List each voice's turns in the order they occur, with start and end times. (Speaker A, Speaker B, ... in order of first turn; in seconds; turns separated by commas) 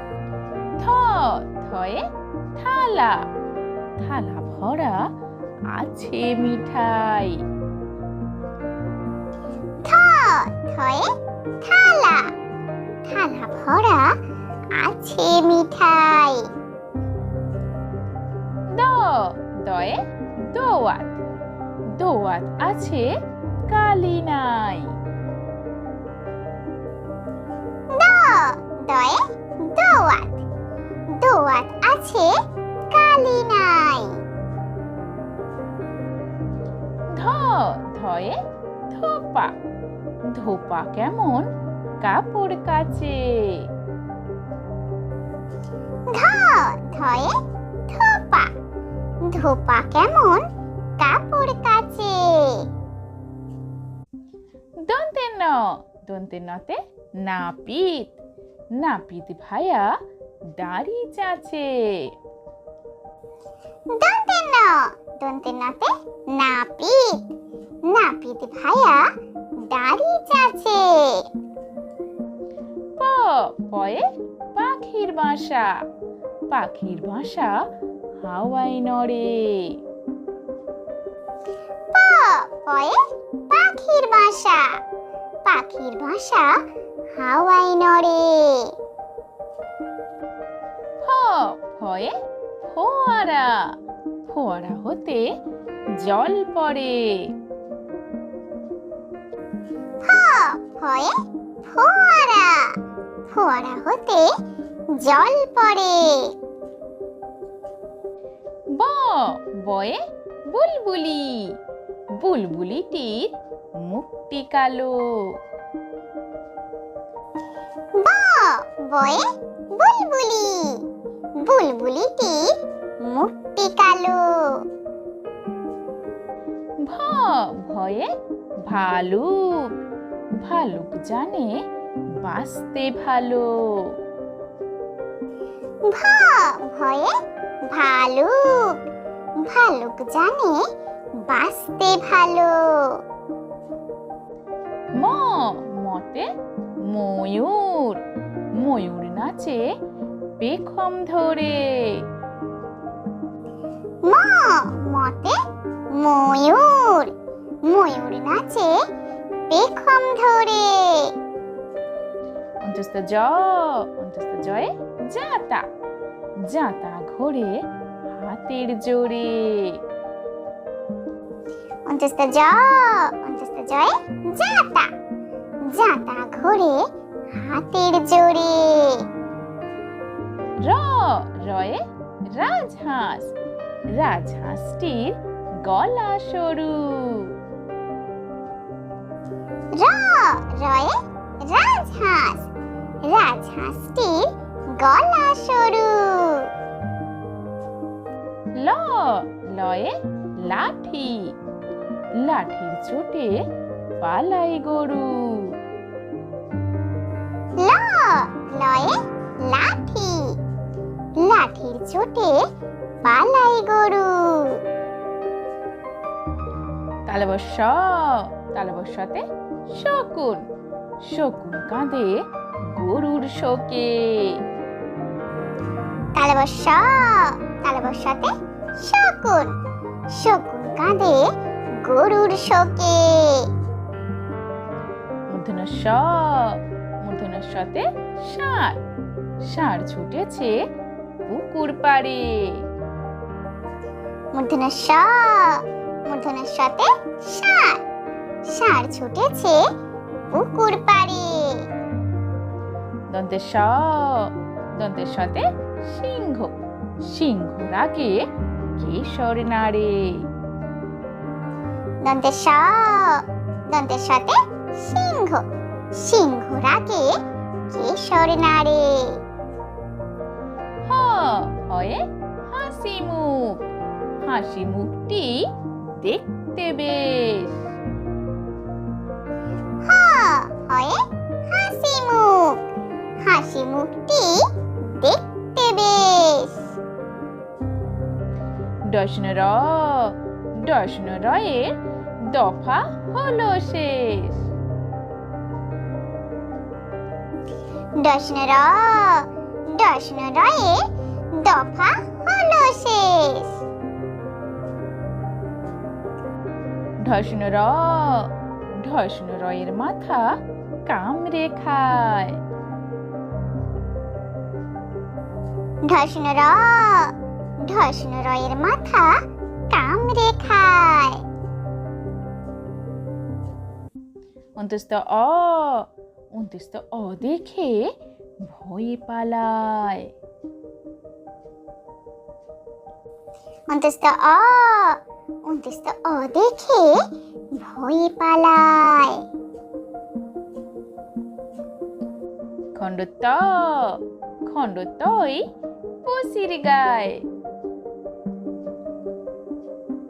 Speaker A: 0.8-2.0, Speaker A: 2.5-3.3, Speaker A: 4.0-5.1, Speaker A: 5.7-7.4, Speaker B: 9.8-12.3, Speaker B: 13.0-14.2, Speaker B: 14.7-16.5, Speaker A: 18.7-21.2, Speaker A: 21.9-25.0, Speaker B: 27.9-30.4, Speaker B: 31.1-32.4, Speaker B: 32.9-34.2, Speaker A: 37.1-38.4, Speaker A: 38.9-39.5, Speaker A: 40.2-41.5, Speaker A: 42.0-43.7, Speaker B: 46.1-47.3, Speaker B: 47.9-48.5, Speaker B: 49.2-50.5, Speaker B: 51.0-52.7, Speaker A: 54.8-58.2, Speaker A: 58.7-60.0, Speaker A: 60.5-62.1, Speaker B: 63.9-67.3, Speaker B: 67.8-71.3, Speaker A: 73.0-74.0, Speaker A: 74.5-75.8, Speaker A: 76.5-79.8, Speaker B: 81.9-84.8, Speaker B: 85.4-88.7, Speaker A: 91.0-95.4, Speaker A: 95.9-97.3, Speaker B: 100.0-102.8, Speaker B: 103.3-104.3, Speaker B: 104.9-106.3, Speaker A: 108.7-111.6, Speaker A: 112.1-115.4, Speaker B: 117.9-120.8, Speaker B: 121.4-124.6, Speaker A: 126.8-128.1, Speaker A: 128.7-129.8, Speaker A: 130.3-131.6, Speaker A: 132.2-133.9, Speaker B: 135.8-137.1, Speaker B: 137.6-138.8, Speaker B: 139.4-140.6, Speaker B: 141.2-143.0, Speaker A: 144.9-146.3, Speaker A: 146.8-149.7, Speaker A: 150.4-152.1, Speaker B: 154.0-155.4, Speaker B: 155.9-158.8, Speaker B: 159.5-161.1, Speaker A: 162.6-165.7, Speaker A: 166.4-169.8, Speaker B: 171.9-174.9, Speaker B: 175.6-179.1, Speaker A: 180.6-183.3, Speaker A: 183.9-187.3, Speaker B: 189.7-192.5, Speaker B: 193.0-196.5, Speaker A: 198.6-201.4, Speaker A: 202.1-203.4, Speaker A: 204.0-205.6, Speaker B: 207.6-210.4, Speaker B: 211.2-212.4, Speaker B: 213.0-214.6, Speaker A: 217.1-220.5, Speaker A: 221.0-224.4, Speaker B: 226.1-229.6, Speaker B: 230.1-233.5, Speaker A: 235.3-238.8, Speaker A: 239.4-240.7, Speaker A: 241.3-242.6, Speaker B: 244.3-247.8, Speaker B: 248.4-249.7, Speaker B: 250.3-251.7, Speaker A: 253.1-260.3, Speaker B: 262.0-269.2, Speaker A: 270.8-273.7, Speaker A: 274.2-277.6, Speaker B: 279.8-282.6, Speaker B: 283.2-286.7, Speaker A: 288.9-294.4, Speaker B: 297.9-303.6, Speaker A: 307.0-312.4, Speaker B: 315.8-321.2, Speaker A: 324.6-330.1, Speaker B: 333.7-339.2, Speaker A: 342.7-345.4, Speaker A: 346.0-347.2